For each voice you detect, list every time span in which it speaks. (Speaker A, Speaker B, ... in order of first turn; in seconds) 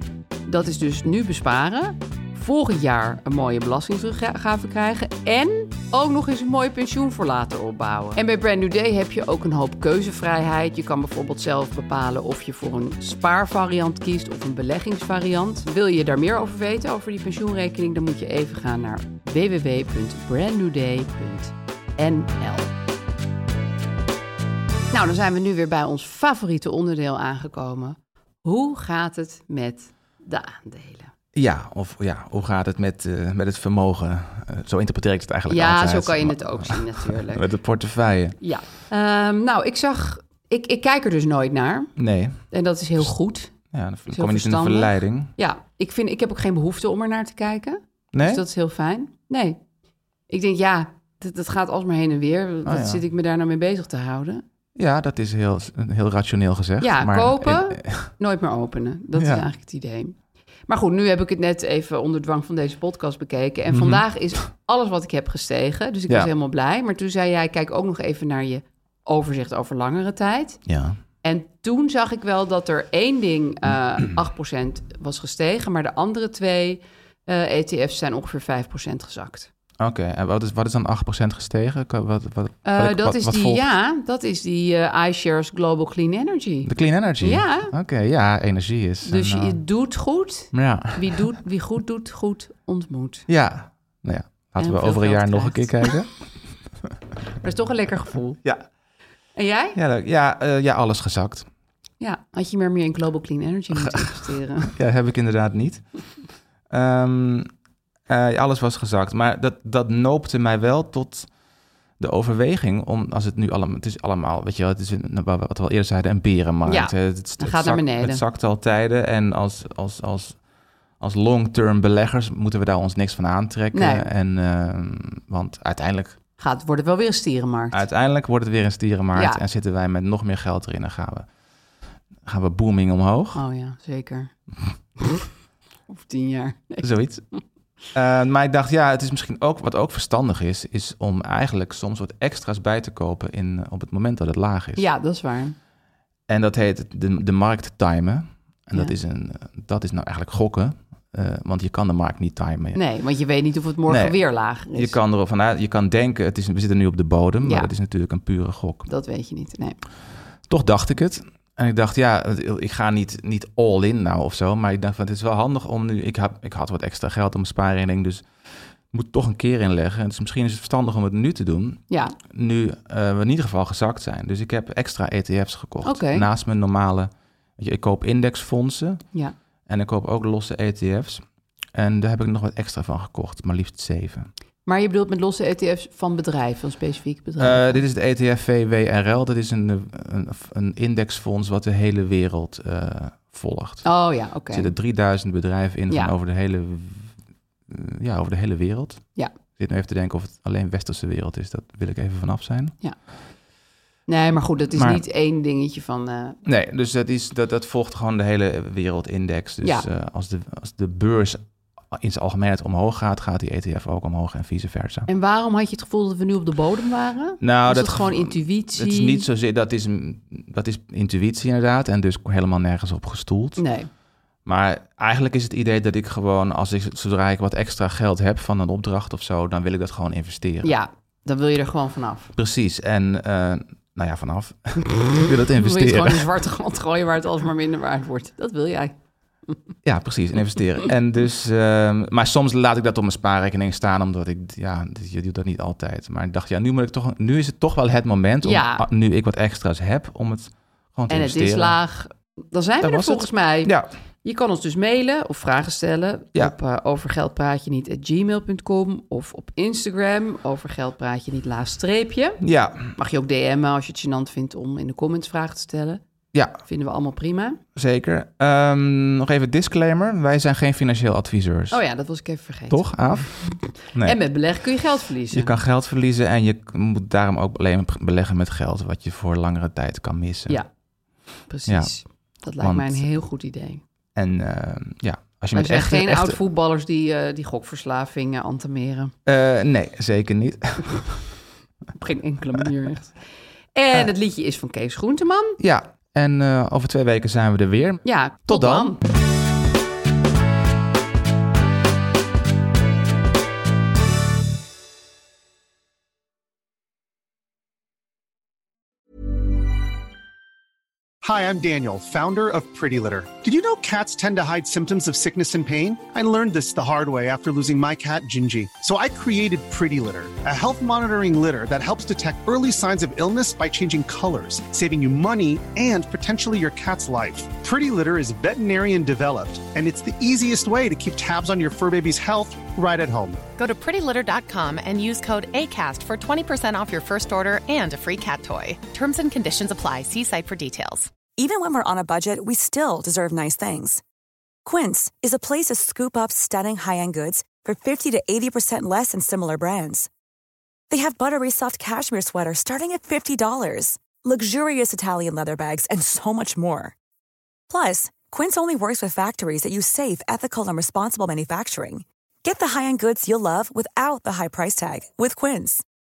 Speaker A: 0.5-22.7, 24.9-31.1, 35.5-37.5, 38.4-41.9, 42.5-43.5, 44.1-49.6, 50.3-54.4, 56.8-60.2, 60.7-70.6, 71.2-79.5, 82.7-87.7, 89.0-93.3, 94.6-96.0, 97.4-98.4, 99.3-99.8, 102.0-104.7, 116.7-118.2, 123.7-124.1, 126.4-127.8, 129.2-129.4, 133.3-134.3, 135.9-137.4, 144.8-145.6, 152.7-155.0, 157.4-157.7, 158.9-159.8, 171.9-172.2, 175.8-176.3, 184.7-187.8, 193.8-194.7, 204.1-206.4, 215.1-219.3, 223.6-223.9, 230.6-232.3, 235.2-238.9, 248.4-248.9, 251.1-253.7, 254.2-262.4, 262.9-266.0, 266.6-267.6, 271.7-275.5, 281.5-283.8, 285.5-289.1, 291.9-293.2, 293.7-295.6, 298.0-299.0
Speaker B: 31.3-38.4, 42.0-42.4, 43.7-45.3, 48.1-48.4, 52.6-53.0, 54.8-58.1, 59.2-59.5, 63.7-64.0, 70.7-71.0, 79.8-83.7, 86.6-89.6, 90.5-91.2, 93.3-96.1, 99.8-101.5, 103.7-106.1, 106.7-107.5, 108.1-111.3, 112.0-120.4, 121.0-126.2, 127.7-131.3, 132.2-133.4, 136.8-137.3, 137.9-144.9, 146.3-152.8, 153.9-158.9, 160.5-179.0, 179.7-184.3, 187.4-193.9, 194.5-197.1, 197.7-202.8, 204.7-205.0, 206.4-215.1, 217.4-223.6, 224.4-230.7, 232.3-236.3, 239.8-251.8, 252.8-253.9, 262.4-262.9, 267.8-271.8, 272.7-274.2, 275.3-280.6, 281.7-281.9, 282.6-283.1, 284.1-286.4, 289.2-291.2, 295.6-299.0
Speaker C: 311.2-333.4
Speaker D: 333.6-341.1
Speaker E: 341.4-344.0, 344.6-350.1, 350.9-356.9, 357.7-365.8